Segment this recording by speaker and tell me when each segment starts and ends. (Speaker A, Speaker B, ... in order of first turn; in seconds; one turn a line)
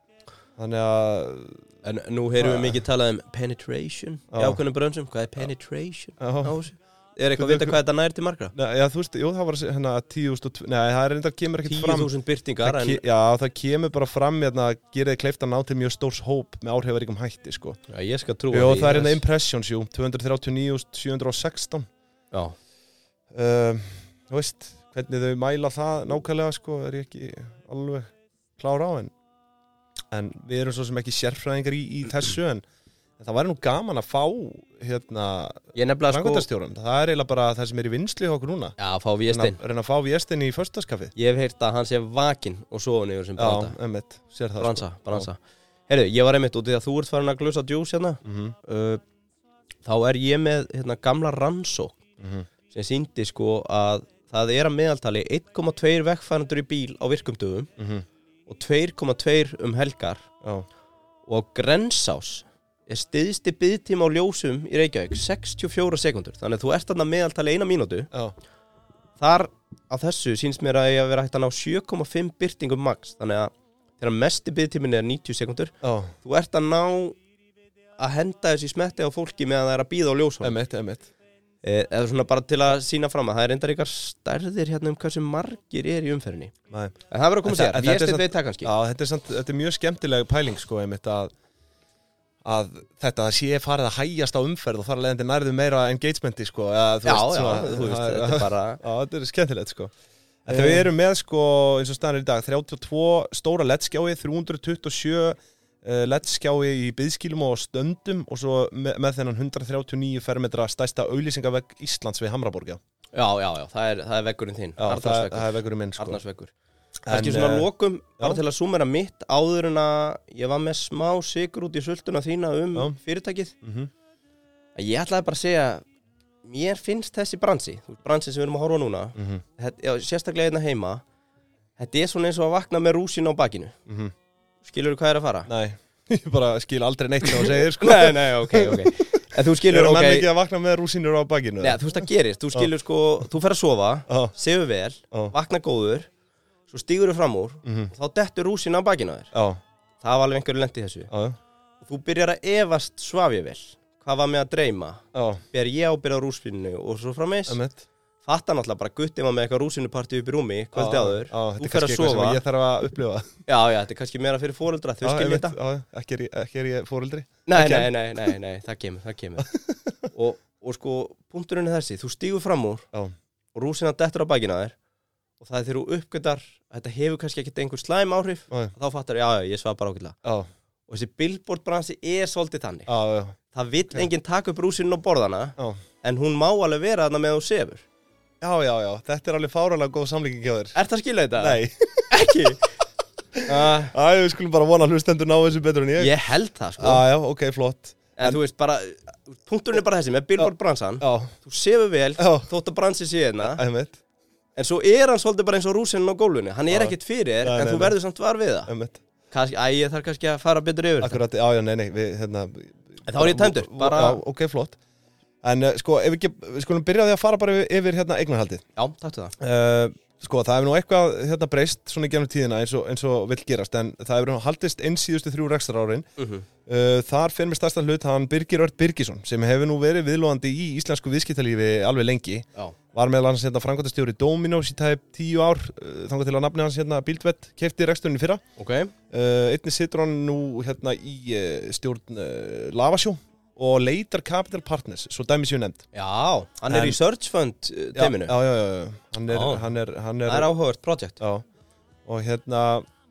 Speaker A: 0.6-1.6
Speaker B: 1.8-8.5
Speaker A: 2.4-2.8
Speaker A: 4.3-4.6
Speaker A: 6.2-6.6
Speaker A: 7.4-7.8
Speaker A: 8.5-12.1
Speaker B: 11.6-13.0
Speaker A: 12.6-17.8
Speaker B: 17.9-19.2
Speaker A: 18.5-21.9
Speaker A: 23.3-29.1
Speaker A: 30.1-32.6
Speaker A: 33.2-38.8
Speaker B: 35.7-36.5
Speaker B: 38.8-39.6
Speaker A: 39.3-41.1
Speaker B: 41.1-43.8
Speaker A: 43.4-45.3
Speaker B: 44.6-49.0
Speaker A: 48.2-48.5
Speaker B: 49.8-52.0
Speaker A: 52.2-52.5
Speaker B: 52.7-57.7
Speaker A: 57.8-58.0
Speaker B: 58.5-60.3
Speaker B: 61.3-68.1
Speaker B: 69.2-77.2
Speaker A: 75.8-76.1
Speaker B: 78.0-80.5
Speaker A: 80.4-81.1
Speaker B: 81.6-86.5
Speaker A: 86.7-91.3
Speaker B: 87.1-88.7
Speaker A: 92.4-99.9
Speaker B: 97.0-98.8
Speaker A: 100.5-112.8
Speaker B: 100.5-100.8
Speaker B: 113.1-116.5
Speaker A: 114.8-116.2
Speaker B: 117.0-123.5
Speaker A: 117.1-117.7
Speaker A: 123.6-123.9
Speaker B: 124.8-125.8
Speaker B: 126.4-131.0
Speaker A: 129.2-129.4
Speaker B: 131.8-133.8
Speaker A: 133.9-134.1
Speaker B: 134.6-135.5
Speaker A: 135.5-142.7
Speaker B: 137.2-140.3
Speaker B: 141.6-146.1
Speaker A: 144.1-144.3
Speaker B: 146.7-149.3
Speaker A: 147.6-147.9
Speaker A: 149.3-149.6
Speaker B: 150.0-151.1
Speaker A: 151.1-151.4
Speaker B: 151.8-157.6
Speaker A: 155.1-155.4
Speaker A: 157.5-157.8
Speaker B: 158.2-162.4
Speaker A: 160.7-163.3
Speaker B: 163.5-165.5
Speaker A: 165.0-168.3
Speaker B: 167.5-169.5
Speaker A: 169.4-170.1
Speaker B: 170.1-172.8
Speaker B: 173.5-174.7
Speaker B: 175.4-180.2
Speaker B: 180.9-182.9
Speaker A: 182.9-183.4
Speaker B: 183.5-187.8
Speaker A: 188.4-190.8
Speaker B: 190.7-192.7
Speaker A: 191.4-192.5
Speaker A: 193.3-196.1
Speaker B: 193.4-193.9
Speaker B: 196.0-197.0
Speaker A: 196.8-198.4
Speaker B: 198.2-203.6
Speaker A: 201.0-201.3
Speaker A: 202.2-202.5
Speaker A: 203.4-204.0
Speaker B: 204.6-208.7
Speaker A: 206.7-207.9
Speaker A: 208.7-209.0
Speaker B: 209.3-211.2
Speaker A: 211.0-214.8
Speaker B: 213.1-214.2
Speaker A: 215.4-218.6
Speaker B: 218.8-219.3
Speaker A: 219.4-226.1
Speaker B: 226.2-226.4
Speaker A: 226.7-238.4
Speaker B: 238.6-238.9
Speaker A: 239.1-245.8
Speaker B: 245.9-248.3
Speaker A: 246.7-247.0
Speaker A: 247.9-250.5
Speaker B: 249.3-249.6
Speaker B: 250.2-251.2
Speaker A: 251.2-251.4
Speaker A: 252.1-252.8